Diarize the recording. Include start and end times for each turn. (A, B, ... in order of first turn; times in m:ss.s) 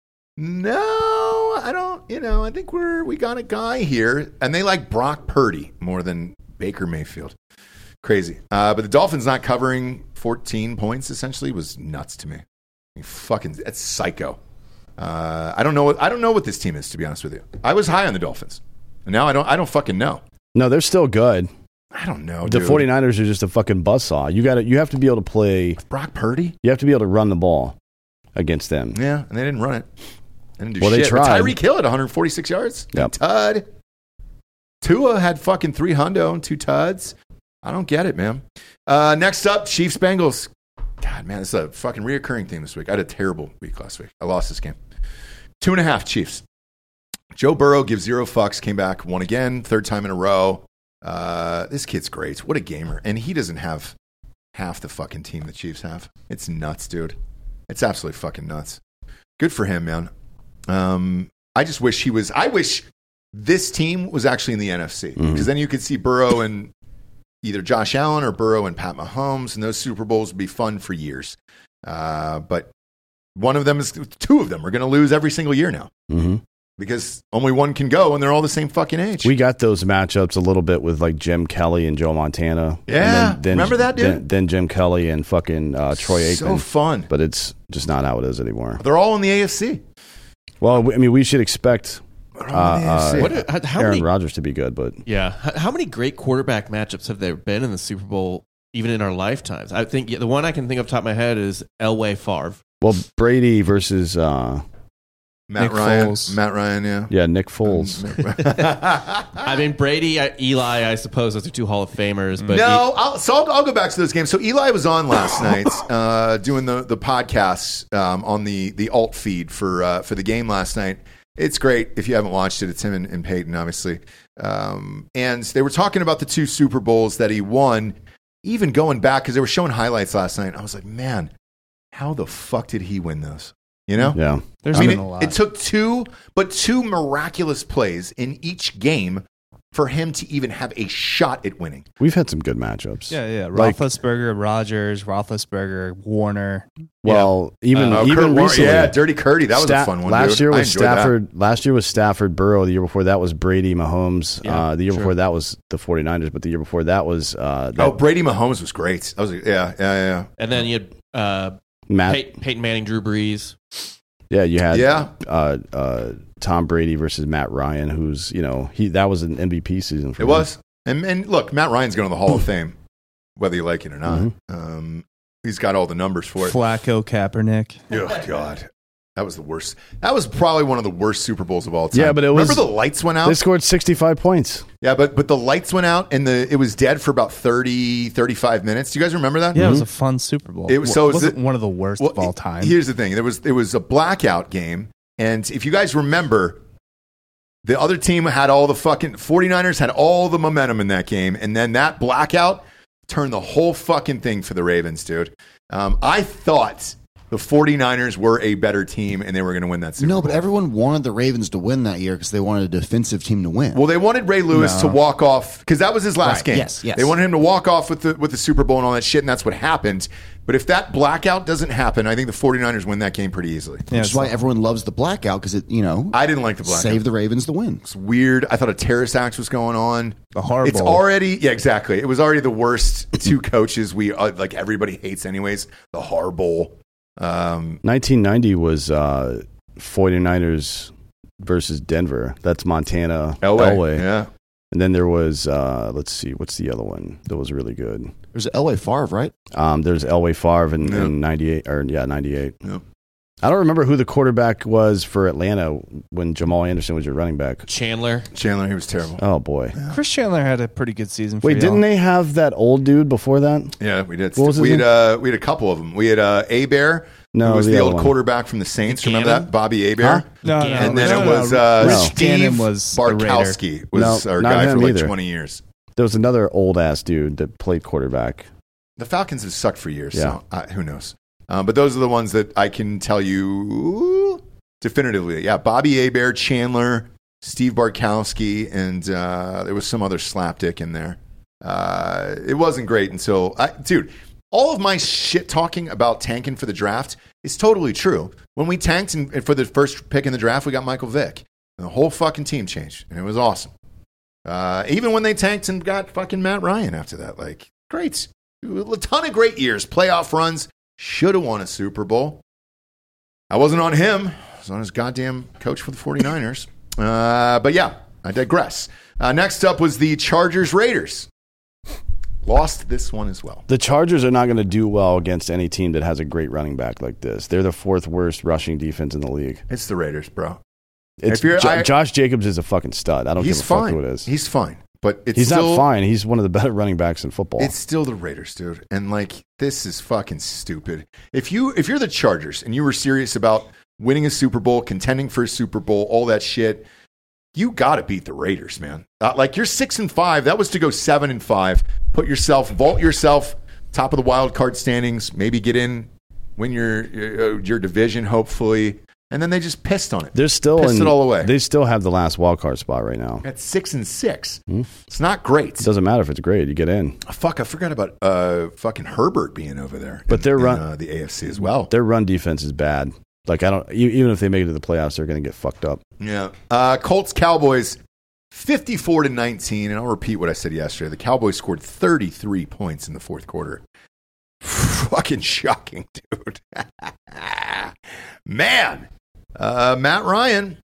0:00.4-0:07.3 A
0:08.0-0:12.4 A
0:12.9-0:14.4 A
0:15.0-0:20.2 A
0:20.5-0:21.5 B
0:21.9-0:22.9 A
0:22.4-0:25.8 B
0:25.8-0:26.6 A
0:26.6-0:27.8 B
0:28.4-0:29.0 B
0:28.9-0:29.9 A
0:30.6-0:33.6 A
0:30.8-0:31.6 B
0:34.8-0:44.8 A
0:45.6-0:46.4 A
0:47.3-0:53.9 A
0:54.5-0:57.2 A
0:57.7-0:58.8 A
0:59.4-1:00.1 A
1:00.7-1:06.7 A
1:05.2-1:05.5 B
1:07.4-1:12.7 A
1:13.3-1:15.9 A
1:16.1-1:16.4 B
1:16.8-1:19.3 A
1:19.2-1:28.8 B
1:22.9-1:24.2 A
1:26.0-1:27.1 A
1:28.8-1:29.8 A
1:30.6-1:35.0 B
1:32.4-1:33.3 A
1:33.2-1:34.1 C
1:35.0-1:42.6 C
1:42.8-1:44.6 B
1:45.5-1:47.1 A
1:45.6-1:46.4 D
1:47.1-1:48.1 B
1:47.6-1:49.5 A
1:49.3-1:52.8 C
1:52.5-2:11.3 A
2:11.9-2:14.2 A
2:14.1-2:15.0 B
2:14.6-2:15.4 D
2:14.7-2:21.9 A
2:22.0-2:23.8 B
2:23.1-2:26.7 D
2:27.0-2:29.0 B
2:27.0-2:28.0 C
2:27.9-2:31.1 A
2:29.5-2:38.0 B
2:37.8-2:40.3 A
2:40.4-2:43.9 C
2:41.9-2:42.2 B
2:44.3-2:50.4 B
2:44.7-2:45.1 A
2:50.2-2:52.8 A
2:53.4-2:56.6 A
2:56.4-2:57.8 D
2:57.9-3:03.4 A
3:01.9-3:02.7 B
3:03.2-3:04.6 B
3:04.8-3:09.7 A
3:09.5-3:12.7 D
3:09.6-3:09.8 B
3:10.7-3:11.4 A
3:12.0-3:16.6 A
3:17.6-3:30.4 A
3:30.0-3:33.8 E
3:33.7-3:43.9 A
3:34.5-3:35.0 D
3:36.2-3:37.1 E
3:43.9-3:44.3 D
3:43.9-3:47.8 E
3:46.1-3:47.0 A
3:47.8-3:57.8 A
3:50.3-3:51.0 D
3:57.8-4:04.1 B
4:03.4-4:04.3 A
4:04.7-4:08.1 B
4:08.3-4:09.3 E
4:09.5-4:12.6 B
4:10.8-4:11.1 A
4:13.4-4:17.6 B
4:17.7-4:18.3 C
4:18.3-4:19.2 A
4:19.2-4:19.8 B
4:19.9-4:21.8 D
4:21.4-4:23.7 B
4:23.8-4:35.6 A
4:24.4-4:24.9 B
4:27.3-4:28.2 B
4:28.9-4:29.5 C
4:30.0-4:30.2 B
4:30.4-4:33.6 D
4:30.5-4:31.3 C
4:31.8-4:32.2 B
4:33.9-4:35.1 B
4:36.0-4:38.5 B
4:39.0-5:03.7 A
5:04.4-5:12.4 A
5:13.5-5:21.3 A
5:22.4-5:23.6 A
5:23.7-5:29.6 B
5:29.7-5:30.6 A
5:31.2-5:34.3 B
5:31.3-5:31.9 A
5:33.4-5:35.8 A
5:35.3-5:37.7 B
5:37.6-5:46.9 A
5:47.5-6:01.5 A
6:00.3-6:03.4 B
6:03.4-6:05.9 A
6:05.8-6:07.2 B
6:07.2-6:11.9 A
6:10.3-6:10.8 B
6:11.9-6:16.0 B
6:16.2-6:18.0 A
6:18.5-6:23.8 A
6:24.6-6:27.9 A
6:28.4-6:30.8 A